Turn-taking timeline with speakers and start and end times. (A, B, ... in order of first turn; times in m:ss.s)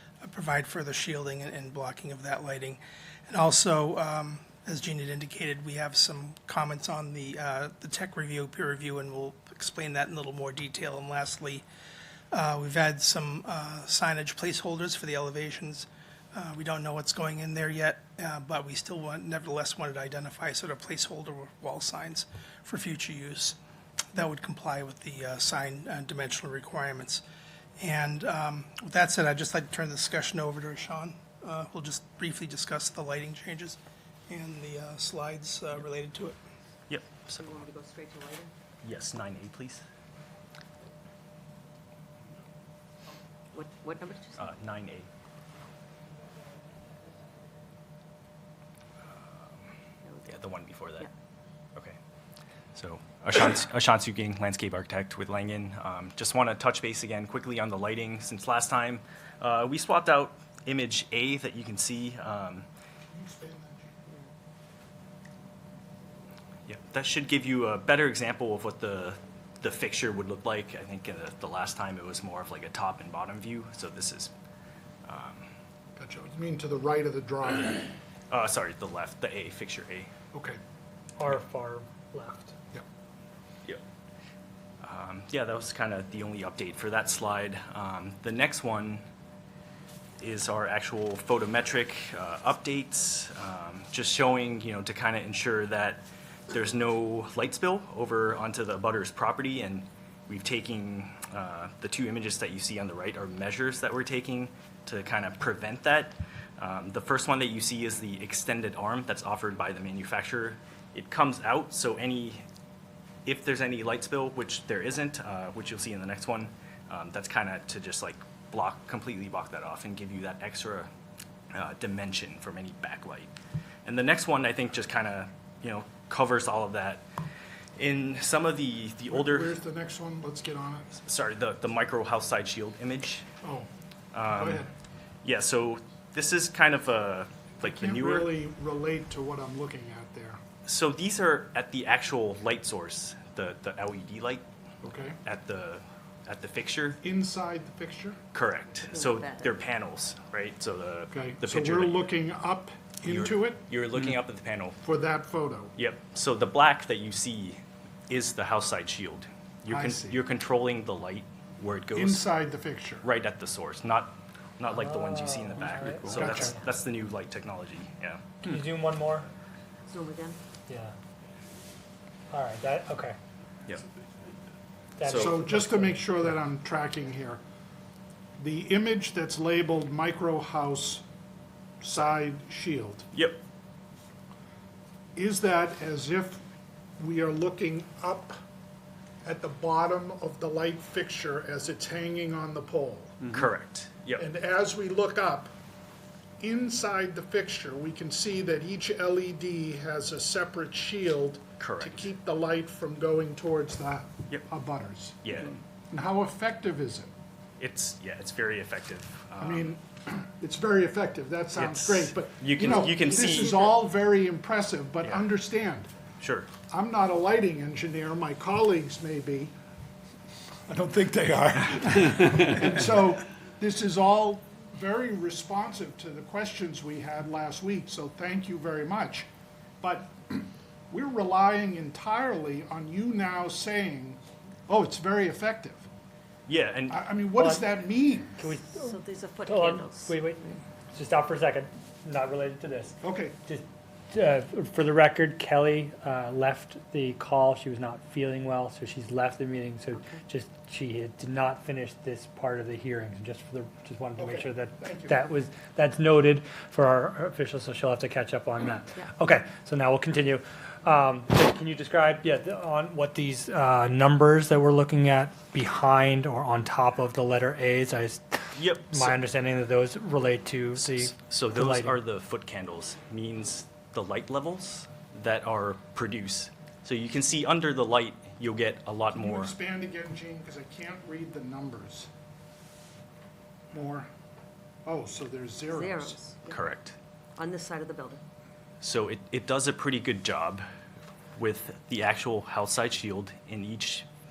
0:00.2-0:11.6 A
0:12.3-0:23.6 A
0:24.1-0:27.2 A
0:27.8-0:33.8 A
0:34.3-0:36.4 A
0:36.9-0:37.6 B
0:37.4-0:38.5 C
0:38.8-0:39.8 B
0:43.5-0:44.5 C
0:44.4-0:45.1 B
0:49.1-0:49.6 B
0:50.0-0:50.4 C
0:50.2-0:51.1 B
0:52.7-1:02.7 B
1:03.1-1:04.1 D
1:06.7-1:14.3 B
1:15.0-1:15.5 B
1:16.0-1:17.9 D
1:18.3-1:20.1 B
1:20.3-1:20.6 D
1:21.2-1:22.6 E
1:24.8-1:29.0 B
1:30.2-1:52.4 B
1:53.2-2:00.9 B
2:01.5-2:03.3 B
2:03.8-2:07.0 B
2:07.8-2:09.6 B
2:09.1-2:10.9 D
2:11.0-2:13.3 B
2:13.4-2:13.7 D
2:14.1-2:14.7 B
2:14.3-2:14.7 D
2:15.2-2:18.3 B
2:17.6-2:20.4 D
2:20.6-2:24.4 B
2:24.8-2:25.2 D
2:25.2-2:27.0 B
2:27.0-2:28.2 D
2:28.3-2:32.1 B
2:28.9-2:29.5 C
2:31.1-2:33.6 D
2:33.0-2:34.8 B
2:34.8-2:35.7 D
2:35.8-2:42.2 B
2:39.7-2:40.2 D
2:41.9-2:43.0 D
2:43.0-2:48.4 B
2:44.7-2:46.6 E
2:46.1-2:46.6 D
2:48.4-2:49.3 E
2:49.9-2:50.4 C
2:50.7-2:50.9 E
2:52.3-2:53.2 E
2:55.0-2:56.3 E
2:55.0-2:55.4 B
2:55.1-2:57.4 D
2:58.4-3:01.0 D
3:01.8-3:03.1 D
3:03.1-3:03.4 B
3:05.1-3:06.4 D
3:07.0-3:08.4 D
3:09.2-3:13.3 D
3:13.3-3:14.2 B
3:14.2-3:15.5 D
3:16.4-3:25.3 D
3:21.6-3:22.1 B
3:25.2-3:25.5 B
3:25.9-3:27.1 D
3:27.6-3:29.7 B
3:29.4-3:35.9 D
3:31.6-3:33.7 B
3:36.2-3:36.5 B
3:36.7-3:39.5 D
3:40.7-3:49.3 D
3:49.8-3:55.8 D
3:56.5-3:57.0 B
3:56.9-3:58.5 D
3:57.3-3:57.7 E
3:58.4-4:31.9 E
3:58.9-4:00.1 C
4:03.0-4:03.4 D
4:14.2-4:15.2 D
4:28.6-4:29.2 B
4:30.8-4:39.5 B
4:39.1-4:42.1 D
4:43.7-4:44.1 D
4:44.8-4:46.2 D
4:45.7-4:46.7 C
4:46.5-4:47.0 B
4:47.4-4:48.2 C
4:48.8-4:50.6 B
4:51.4-4:54.1 B